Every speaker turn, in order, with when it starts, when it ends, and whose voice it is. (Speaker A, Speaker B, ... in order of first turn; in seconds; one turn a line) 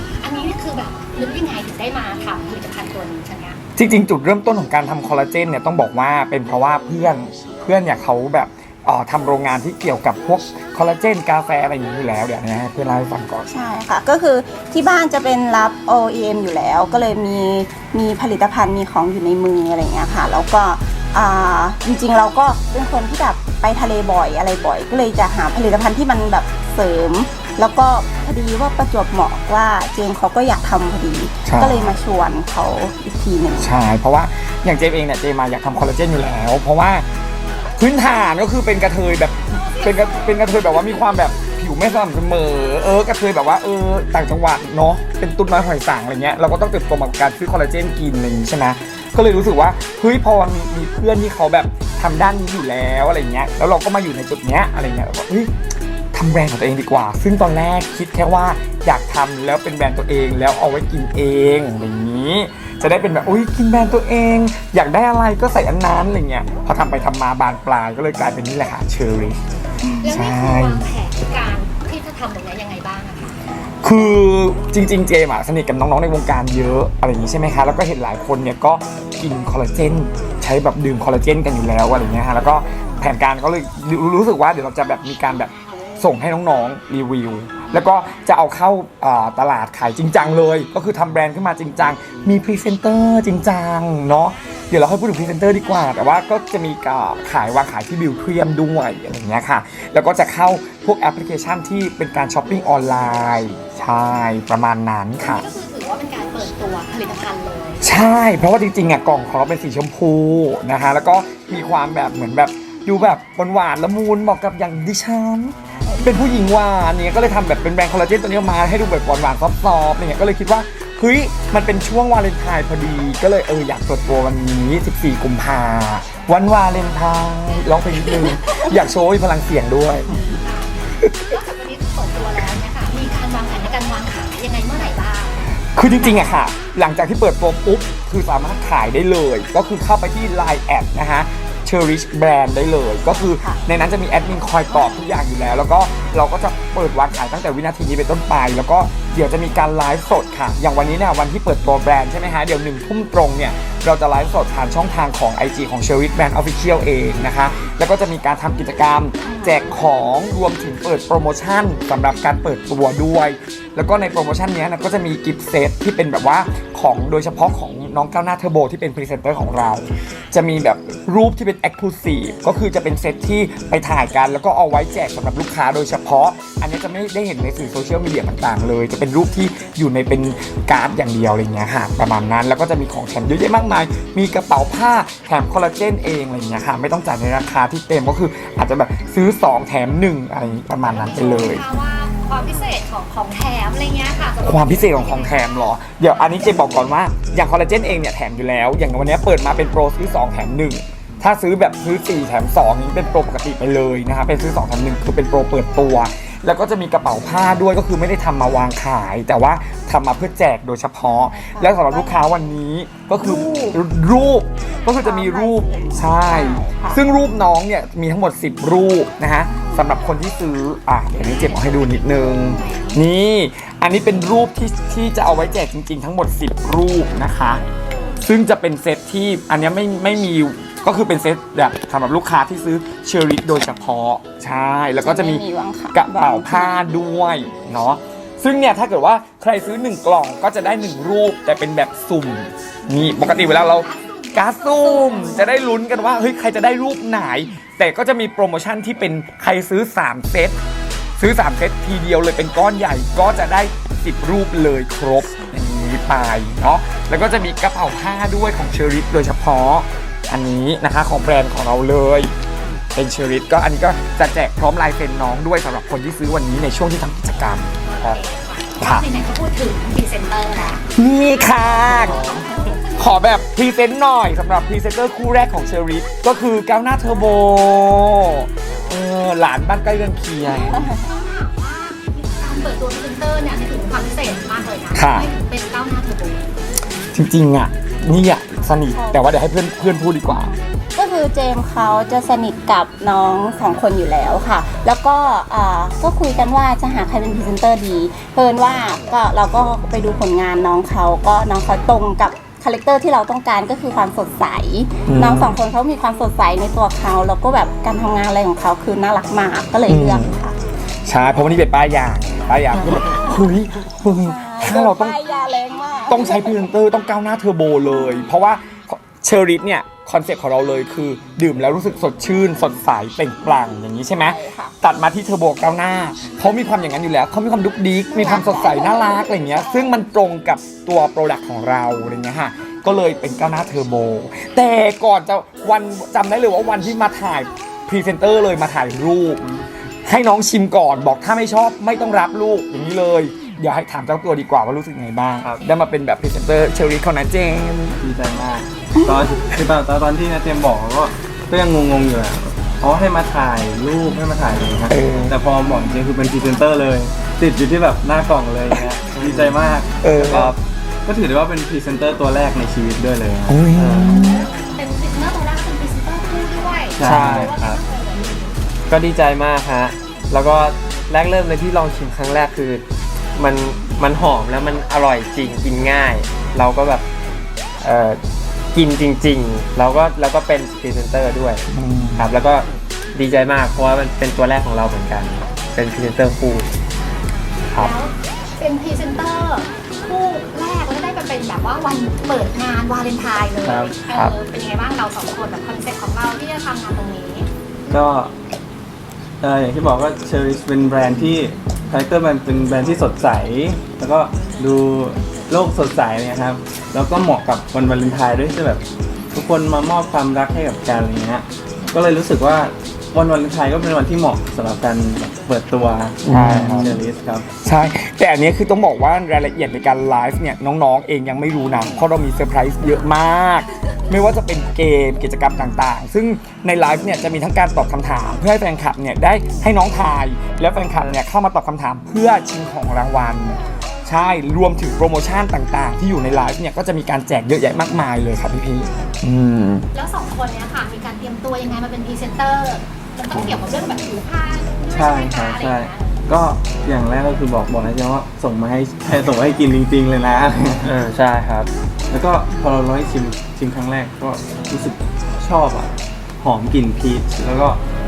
Speaker A: 0.2-3.6
Speaker B: 3.8-13.5
Speaker C: 13.5-33.7
Speaker B: 31.4-32.0
Speaker B: 33.6-37.1
Speaker B: 37.8-55.5
Speaker A: 39.5-41.4
Speaker B: 56.1-69.4
Speaker B: 70.0-70.9
Speaker A: 70.0-73.4
Speaker B: 73.8-105.5
Speaker A: 95.6-96.1
Speaker A: 105.2-107.9
Speaker B: 107.8-130.2
Speaker A: 127.9-128.7
Speaker A: 130.1-135.5
Speaker B: 131.0-131.4
Speaker B: 135.7-191.6
Speaker A: 136.0-136.4
Speaker C: 143.1-143.6
Speaker C: 144.7-144.9
Speaker C: 159.2-159.7
Speaker A: 190.8-195.7
Speaker B: 194.4-227.6
Speaker C: 211.0-212.4
Speaker C: 213.2-213.8
Speaker C: 215.0-217.0
Speaker C: 219.4-219.9
Speaker A: 221.1-223.0
Speaker B: 228.2-250.6
Speaker C: 235.0-236.8
Speaker A: 242.9-245.5
Speaker B: 251.2-262.3
Speaker B: 262.9-267.7
Speaker A: 267.9-270.8
Speaker B: 268.8-269.1
Speaker B: 270.9-272.3
Speaker A: 271.4-273.4
Speaker D: 272.0-272.8
Speaker B: 273.0-280.9
Speaker D: 278.7-279.0
Speaker A: 280.4-286.6
Speaker C: 280.6-281.1
Speaker B: 284.9-285.3
Speaker B: 287.1-290.5
Speaker C: 288.9-310.6
Speaker B: 305.1-305.6
Speaker B: 309.9-310.4
Speaker B: 311.0-315.2
Speaker C: 314.2-316.6
Speaker B: 316.1-339.4
Speaker C: 324.1-324.8
Speaker C: 328.1-330.0
Speaker E: 339.4-339.7
Speaker B: 340.1-348.0
Speaker A: 345.4-345.8
Speaker E: 348.0-360.6
Speaker B: 354.9-355.4
Speaker D: 359.1-359.6
Speaker B: 360.0-360.5
Speaker D: 360.2-360.6
Speaker E: 361.1-363.7
Speaker B: 363.5-364.5
Speaker D: 363.8-364.1
Speaker A: 364.1-368.6
Speaker E: 366.9-367.6
Speaker D: 367.0-367.8
Speaker D: 368.9-372.8
Speaker D: 373.4-377.1
Speaker D: 377.8-378.2
Speaker D: 378.7-381.6
Speaker B: 381.7-382.3
Speaker D: 382.2-386.7
Speaker A: 387.0-397.5
Speaker E: 393.6-394.0
Speaker E: 397.9-398.3
Speaker E: 399.4-417.6
Speaker B: 416.2-417.0
Speaker D: 416.3-417.0
Speaker B: 417.6-439.9
Speaker A: 439.9-446.2
Speaker E: 443.3-443.7
Speaker E: 444.9-450.9
Speaker D: 450.8-451.7
Speaker E: 452.1-457.8